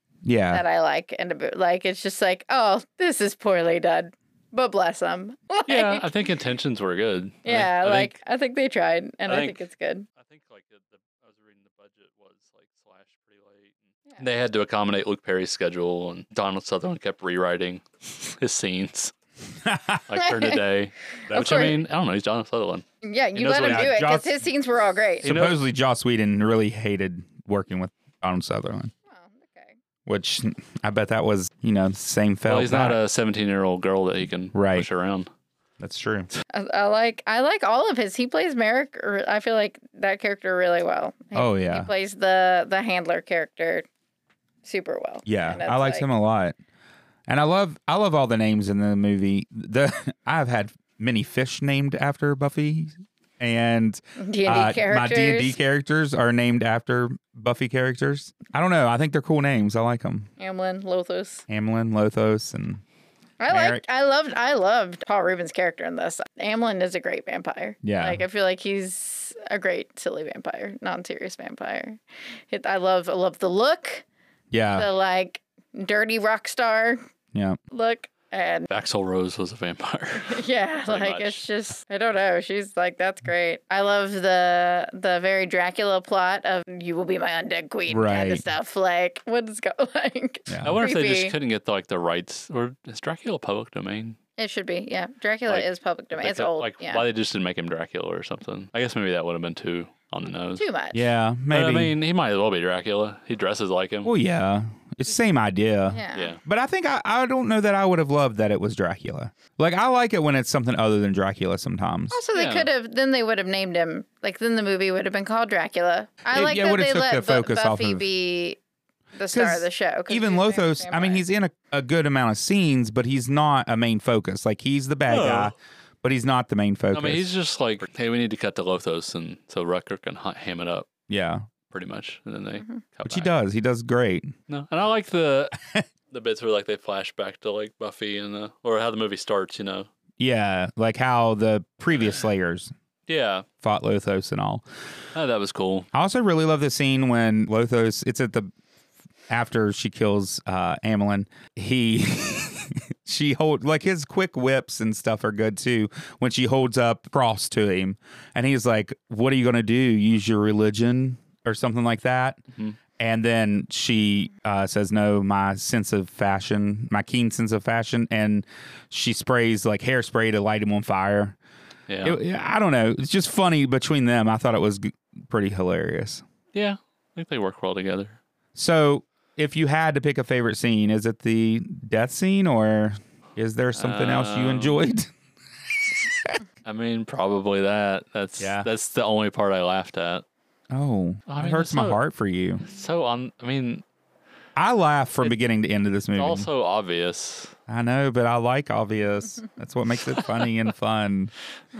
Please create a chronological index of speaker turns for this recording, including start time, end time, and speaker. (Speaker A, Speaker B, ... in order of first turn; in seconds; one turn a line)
Speaker A: 0.2-0.6
Speaker B: 0.5-6.1
Speaker C: 5.7-8.2
Speaker B: 7.5-10.1
Speaker C: 9.3-9.6
Speaker C: 10.2-19.1
Speaker A: 19.6-20.1
Speaker C: 20.1-24.0
Speaker B: 20.2-20.6
Speaker A: 21.3-21.7
Speaker B: 21.3-21.8
Speaker B: 23.0-25.3
Speaker A: 23.6-24.4
Speaker C: 25.2-25.6
Speaker A: 25.2-28.9
Speaker B: 29.1-29.8
Speaker A: 30.1-33.0
Speaker C: 32.5-35.3
Speaker A: 34.5-34.9
Speaker A: 35.8-36.3
Speaker B: 36.5-43.9
Speaker A: 41.3-41.9
Speaker B: 44.6-46.1
Speaker A: 45.3-46.5
Speaker A: 47.3-60.3
Speaker B: 54.2-55.6
Speaker B: 60.4-61.4
Speaker A: 61.5-62.8
Speaker B: 63.4-74.0
Speaker A: 63.5-63.8
Speaker A: 67.8-68.2
Speaker A: 74.5-74.9
Speaker B: 74.8-77.0
Speaker B: 77.7-78.7
Speaker C: 78.7-81.4
Speaker B: 80.2-91.3
Speaker A: 87.9-88.4
Speaker A: 90.5-90.8
Speaker C: 90.6-94.2
Speaker B: 94.4-97.0
Speaker C: 95.5-100.6
Speaker B: 100.6-101.1
Speaker A: 100.9-101.9
Speaker C: 101.5-104.1
Speaker A: 104.0-112.2
Speaker B: 105.9-106.3
Speaker C: 106.1-106.4
Speaker B: 112.1-118.6
Speaker C: 112.3-112.7
Speaker A: 116.3-118.1
Speaker B: 119.2-121.2
Speaker A: 119.3-127.3
Speaker C: 125.1-125.5
Speaker C: 126.9-130.9
Speaker A: 131.1-131.5
Speaker C: 131.7-133.3
Speaker A: 133.1-134.3
Speaker C: 134.5-135.6
Speaker C: 136.1-139.9
Speaker A: 140.2-142.7
Speaker C: 143.1-143.4
Speaker A: 143.6-144.6
Speaker C: 145.2-145.9
Speaker A: 145.9-148.5
Speaker A: 149.3-162.4
Speaker A: 163.0-171.4
Speaker C: 171.9-172.2
Speaker A: 172.0-176.2
Speaker C: 176.5-178.2
Speaker A: 178.6-185.1
Speaker C: 183.8-184.9
Speaker A: 185.9-186.4
Speaker C: 186.6-190.2
Speaker A: 188.4-188.7
Speaker A: 190.7-192.6
Speaker C: 191.3-192.0
Speaker C: 192.6-193.8
Speaker A: 194.6-196.5
Speaker C: 196.1-197.6
Speaker A: 197.7-201.3